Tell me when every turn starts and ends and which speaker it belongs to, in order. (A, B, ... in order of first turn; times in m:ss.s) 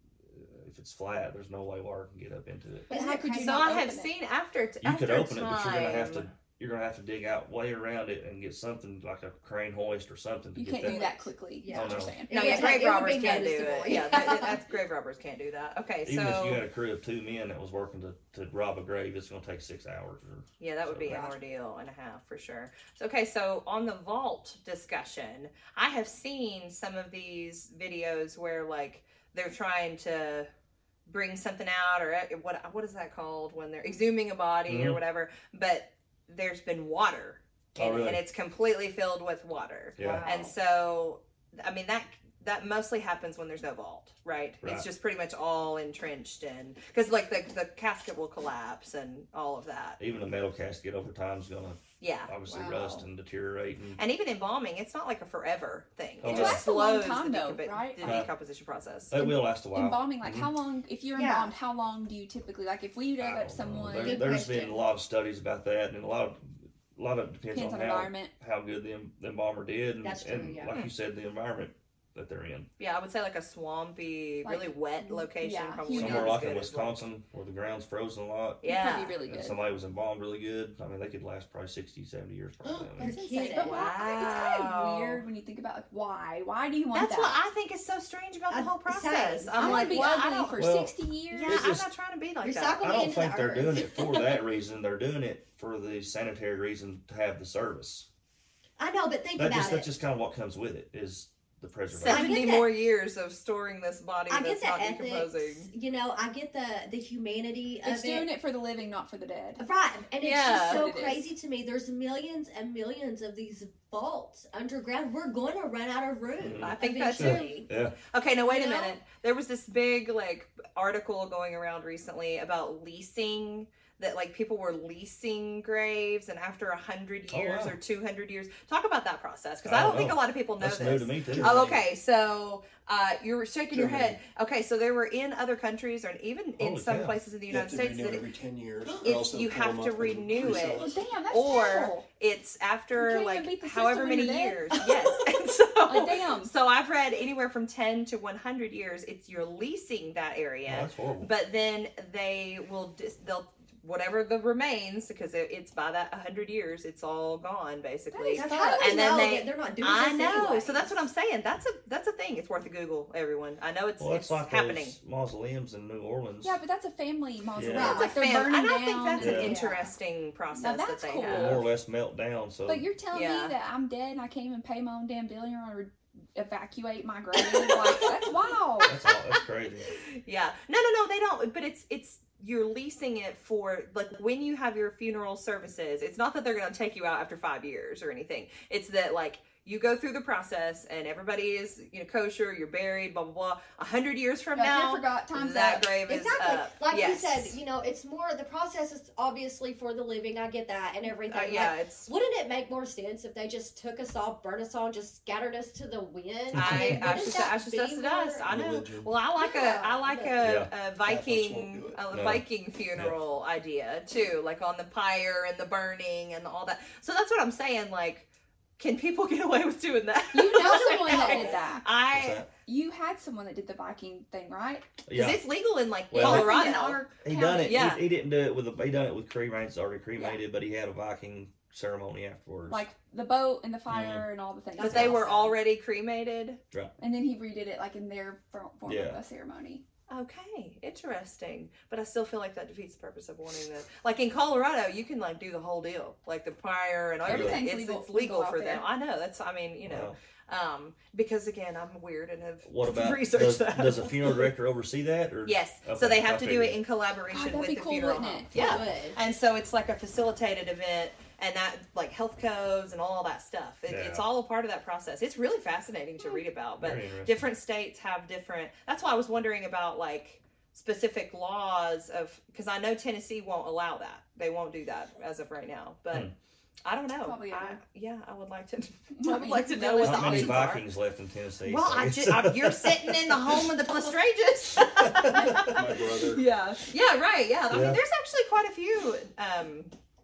0:00.3-0:02.9 A
0:02.9-0:03.9 B
0:02.9-0:04.1 C
0:03.4-0:06.3 D
0:04.8-0:11.0 A
0:10.6-0:12.8 C
0:10.8-0:14.6 B
0:11.7-0:12.2 A
0:12.3-0:16.6 D
0:16.0-0:21.3 A
0:20.6-0:30.5 D
0:21.1-0:21.4 B
0:31.1-0:50.0 D
0:34.7-0:35.0 A
0:37.8-0:38.2 A
0:40.0-0:40.3 A
0:40.0-0:40.5 B
0:50.0-0:54.0 A
0:52.0-0:52.3 D
0:52.5-0:53.0 B
0:54.0-0:59.2 D
0:56.2-0:56.6 A
0:56.3-0:58.2 C
0:58.0-0:58.3 A
0:59.1-1:00.5 A
0:59.2-1:04.5 C
1:01.2-1:01.5 D
1:03.2-1:12.7 A
1:04.0-1:04.8 B
1:07.5-1:08.3 C
1:10.0-1:10.7 B
1:12.8-1:17.0 D
1:14.4-1:16.4 C
1:15.9-1:18.6 A
1:18.6-1:19.2 D
1:18.6-1:19.6 C
1:19.2-1:23.1 A
1:22.7-1:23.9 B
1:23.0-1:27.4 C
1:23.5-1:25.2 D
1:26.9-1:30.6 D
1:28.5-1:30.2 B
1:29.6-1:31.7 C
1:30.6-1:30.9 A
1:31.3-1:32.8 D
1:31.5-1:31.9 A
1:32.4-1:34.4 B
1:32.8-1:38.1 A
1:38.8-1:39.9 B
1:39.4-1:42.4 A
1:41.9-1:45.7 D
1:42.0-1:42.7 B
1:44.3-1:48.3 B
1:47.8-1:49.7 C
1:49.6-1:57.7 B
1:50.2-1:50.8 D
1:50.6-1:51.3 C
1:56.4-1:58.0 A
1:56.6-2:18.3 D
1:58.5-1:58.9 C
2:07.3-2:07.8 A
2:09.6-2:11.8 A
2:11.3-2:11.8 E
2:13.7-2:14.2 E
2:16.6-2:17.2 A
2:17.5-2:21.0 E
2:19.0-2:45.0 D
2:20.7-2:22.0 C
2:23.0-2:24.8 C
2:25.9-2:26.5 C
2:30.6-2:31.3 A
2:38.1-2:39.1 C
2:38.3-2:41.0 B
2:44.0-2:46.6 A
2:46.4-2:49.6 C
2:47.6-2:48.1 A
2:47.7-2:48.2 B
2:47.8-2:51.6 D
2:49.2-2:49.6 A
2:49.3-2:49.9 B
2:50.6-2:51.6 C
2:51.3-2:52.9 A
2:52.7-2:58.9 C
2:53.1-2:53.5 D
2:58.8-3:00.0 A
2:59.9-3:17.6 D
3:14.6-3:15.9 C
3:16.1-3:28.5 B
3:21.3-3:22.1 D
3:26.5-3:38.3 D
3:26.5-3:27.1 A
3:28.5-3:29.2 E
3:29.4-3:30.4 B
3:30.4-3:30.7 A
3:31.0-3:32.0 E
3:32.1-3:32.4 A
3:38.8-3:42.4 D
3:40.3-3:41.9 C
3:40.6-3:41.6 B
3:42.1-3:42.5 A
3:42.7-3:44.9 C
3:45.1-3:45.4 A
3:45.1-3:47.0 D
3:46.1-3:46.6 A
3:46.2-3:47.8 C
3:47.2-3:52.8 A
3:47.6-3:48.0 D
3:52.7-3:55.3 C
3:53.9-3:54.3 A
3:54.8-3:55.6 B
3:54.8-3:56.6 D
3:57.0-3:59.8 C
3:58.9-3:59.2 A
4:00.1-4:14.4 D
4:07.2-4:08.8 C
4:07.3-4:07.6 A
4:09.9-4:10.2 A
4:12.6-4:16.8 A
4:15.5-4:36.3 D
4:17.3-4:18.5 C
4:18.6-4:19.2 B
4:23.9-4:24.3 A
4:26.8-4:27.5 A
4:36.8-4:40.8 D
4:37.2-4:37.8 C
4:39.2-4:40.7 C
4:40.0-4:43.7 A
4:41.6-4:49.9 D
4:44.8-4:46.3 A
4:45.6-4:46.4 E
4:47.7-4:48.0 A